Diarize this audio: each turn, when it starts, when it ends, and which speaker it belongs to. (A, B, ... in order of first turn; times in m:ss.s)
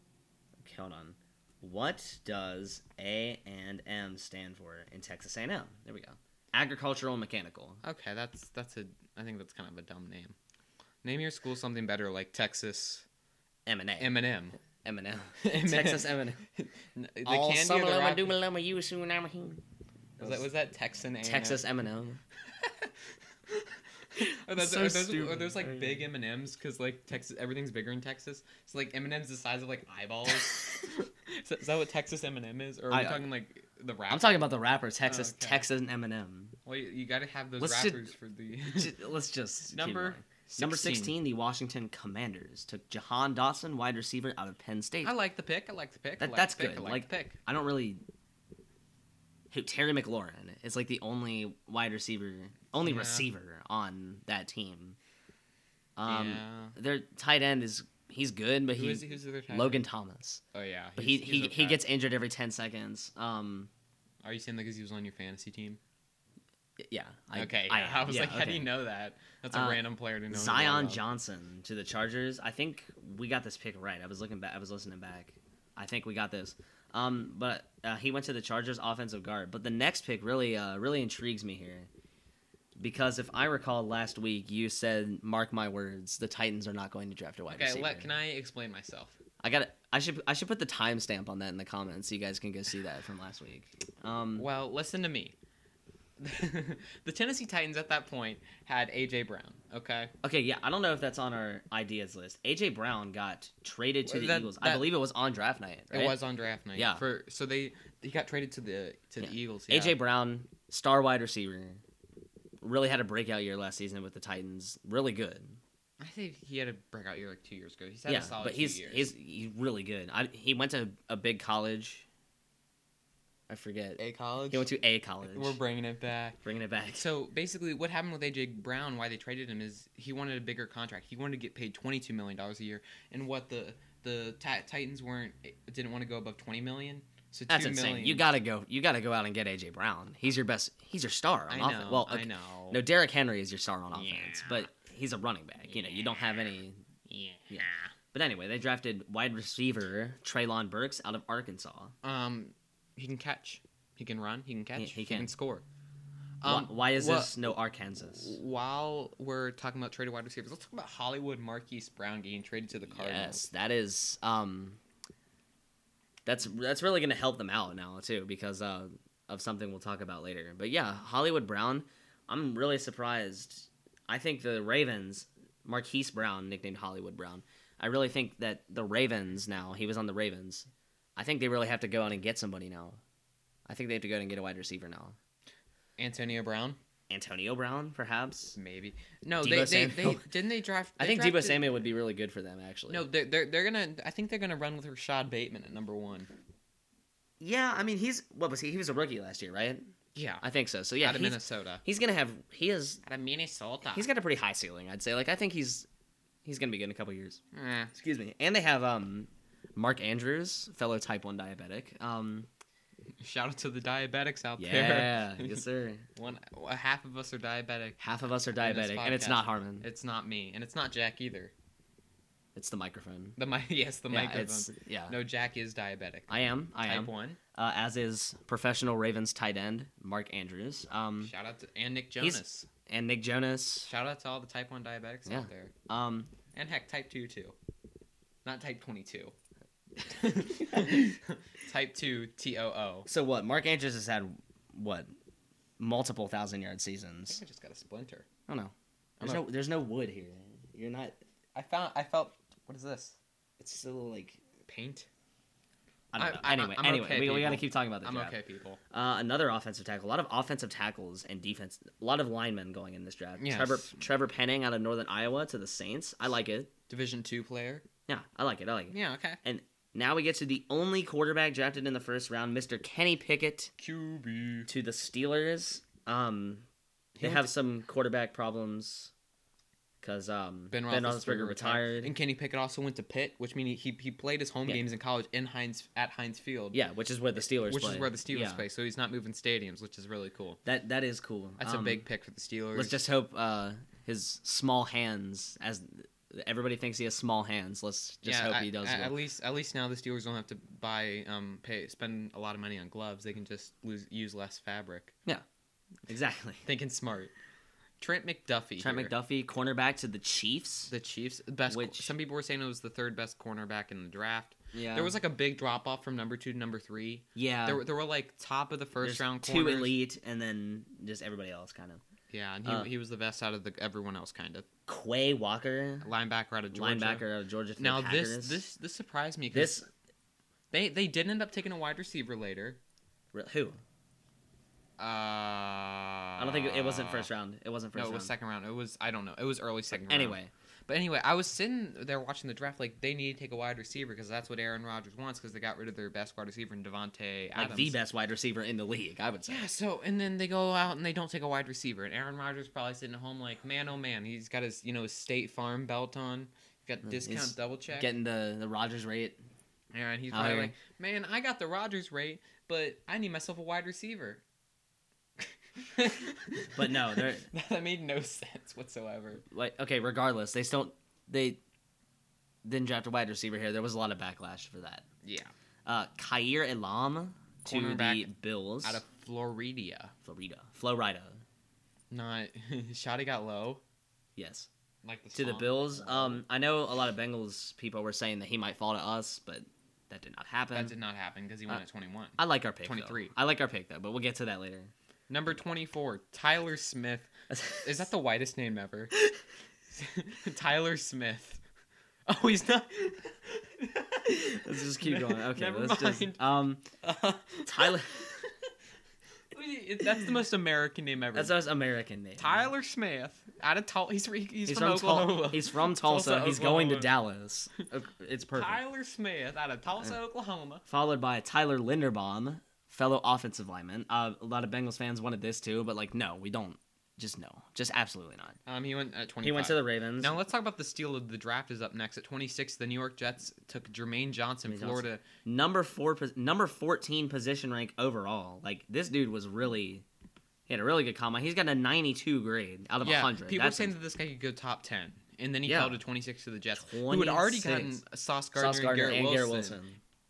0:00.6-0:07.8 A
0:07.8-0:10.4 B
0:11.0-0:13.1 B
0:13.7-0:14.1 A
0:14.0-0:14.6 B
0:14.8-0:16.4 A
0:15.4-0:18.4 B
0:17.3-0:19.6 A
0:20.2-0:20.5 A
0:20.2-0:21.6 B
0:21.2-0:22.2 A
0:22.6-0:22.9 B
0:23.5-0:34.5 B
0:24.2-0:26.1 A
0:32.9-0:33.3 A
0:34.1-0:36.6 A
0:35.0-0:35.7 B
0:36.7-0:38.9 B
0:37.6-0:38.1 A
0:38.7-0:45.2 A
0:39.7-0:41.2 B
0:45.0-0:47.4 B
0:46.2-0:48.0 A
0:49.5-0:55.0 A
0:52.8-0:53.3 B
0:56.0-1:00.4 A
0:56.1-0:56.8 B
0:58.8-0:59.8 B
1:00.5-1:01.8 B
1:01.0-1:03.7 A
1:04.2-1:05.8 B
1:06.8-1:08.7 A
1:07.3-1:11.0 B
1:09.5-1:21.9 A
1:22.8-1:28.2 A
1:27.5-1:29.2 B
1:29.4-1:34.5 A
1:34.4-1:35.4 B
1:36.2-1:40.1 B
1:40.2-1:46.2 A
1:44.0-1:45.0 B
1:45.9-1:50.0 B
1:46.8-1:47.0 A
1:49.2-1:51.8 A
1:52.6-1:55.6 A
1:56.0-1:59.1 B
1:58.1-2:02.1 A
2:03.5-2:05.6 A
2:04.0-2:04.7 B
2:05.2-2:18.2 B
2:06.4-2:07.1 A
2:17.5-2:26.8 A
2:21.5-2:22.8 B
2:23.9-2:24.7 B
2:25.7-2:25.9 B
2:27.1-2:27.9 B
2:27.5-2:31.9 A
2:32.0-2:35.6 B
2:34.8-2:35.3 A
2:36.4-2:37.4 B
2:36.4-2:38.4 A
2:38.1-2:43.5 B
2:42.9-2:44.8 A
2:46.2-3:03.0 A
3:03.7-3:05.2 A
3:06.0-3:06.8 B
3:07.1-3:08.6 A
3:08.6-3:11.7 B
3:09.4-3:10.3 A
3:11.0-3:13.1 A
3:12.9-3:16.3 B
3:17.4-3:19.8 A
3:20.2-3:20.4 B
3:20.4-3:23.0 A
3:21.0-3:21.8 B
3:23.0-3:24.1 B
3:23.9-3:25.9 A
3:26.4-3:27.4 A
3:27.5-3:27.9 B
3:27.9-3:32.5 A
3:33.2-3:38.0 B
3:34.6-3:36.1 A
3:38.0-3:39.9 A
3:38.6-3:41.5 B
3:42.6-3:43.4 A
3:43.4-3:47.4 B
3:44.1-3:45.2 A
3:46.3-3:51.3 A
3:51.2-3:52.7 B
3:52.2-3:53.9 A
3:53.9-3:55.7 B
3:55.3-3:56.3 A
3:56.5-3:57.6 B
3:58.4-3:59.3 B
4:00.0-4:03.1 B
4:03.1-4:05.1 A
4:05.8-4:07.4 A
4:07.3-4:08.3 B
4:08.5-4:11.2 A
4:09.2-4:09.5 B
4:11.6-4:13.2 B
4:13.6-4:14.4 A
4:14.7-4:15.1 B
4:16.1-4:18.4 A
4:16.2-4:18.8 B
4:18.9-4:26.7 A
4:23.4-4:24.0 B
4:26.9-4:27.9 B
4:28.1-4:33.7 A
4:28.9-4:29.4 B
4:33.8-4:34.7 B
4:34.7-4:36.7 A
4:37.2-4:37.5 B
4:37.2-4:39.1 A
4:40.0-4:42.1 A
4:40.7-4:46.8 B
4:46.7-4:48.6 A
4:47.6-4:50.6 B
4:50.6-4:52.0 A
4:51.6-4:53.0 B
4:52.7-4:59.2 A
4:58.2-5:05.1 B
5:06.1-5:06.6 A
5:06.6-5:07.3 B
5:08.0-5:09.1 B
5:08.8-5:10.9 A
5:10.9-5:20.0 B
5:11.7-5:12.1 A
5:14.7-5:15.2 A
5:17.4-5:17.8 A
5:19.0-5:22.0 A
5:22.3-5:24.7 B
5:22.6-5:22.9 A
5:24.9-5:26.1 A
5:26.0-5:27.3 B
5:26.7-5:28.6 A
5:27.8-5:29.8 B
5:29.5-5:29.9 A
5:30.7-5:32.8 B
5:33.3-5:33.8 A
5:35.0-5:37.3 B
5:36.4-5:38.3 A
5:37.9-5:48.0 B
5:39.9-5:40.5 A
5:47.6-5:49.7 A
5:49.5-5:58.1 B
5:57.0-5:59.4 A
5:59.9-6:04.4 B
6:00.3-6:00.7 A
6:05.8-6:09.4 B
6:06.8-6:07.5 A
6:09.5-6:11.6 A
6:12.6-6:15.1 A
6:15.2-6:15.5 B
6:15.9-6:19.0 A
6:17.6-6:18.3 B
6:18.8-6:20.1 B
6:20.2-6:21.4 A
6:22.1-6:23.8 B
6:24.4-6:24.7 A
6:25.0-6:26.4 B
6:25.3-6:30.9 A
6:30.7-6:33.3 B
6:32.4-6:34.9 A
6:35.3-6:39.2 B
6:37.5-6:38.0 A
6:39.9-6:41.6 B
6:42.3-6:46.4 B
6:44.3-6:46.9 A
6:47.0-6:48.5 B
6:47.7-6:48.3 A
6:49.5-6:51.6 B
6:51.3-6:52.7 A
6:52.4-6:57.1 B
6:54.7-6:58.8 A
6:58.5-7:00.8 B
7:00.9-7:08.6 A
7:08.7-7:15.2 B
7:09.4-7:10.4 A
7:14.7-7:20.0 A
7:20.7-7:24.0 A
7:23.0-7:29.8 B
7:25.7-7:26.0 A
7:26.8-7:28.0 A
7:28.6-7:30.0 A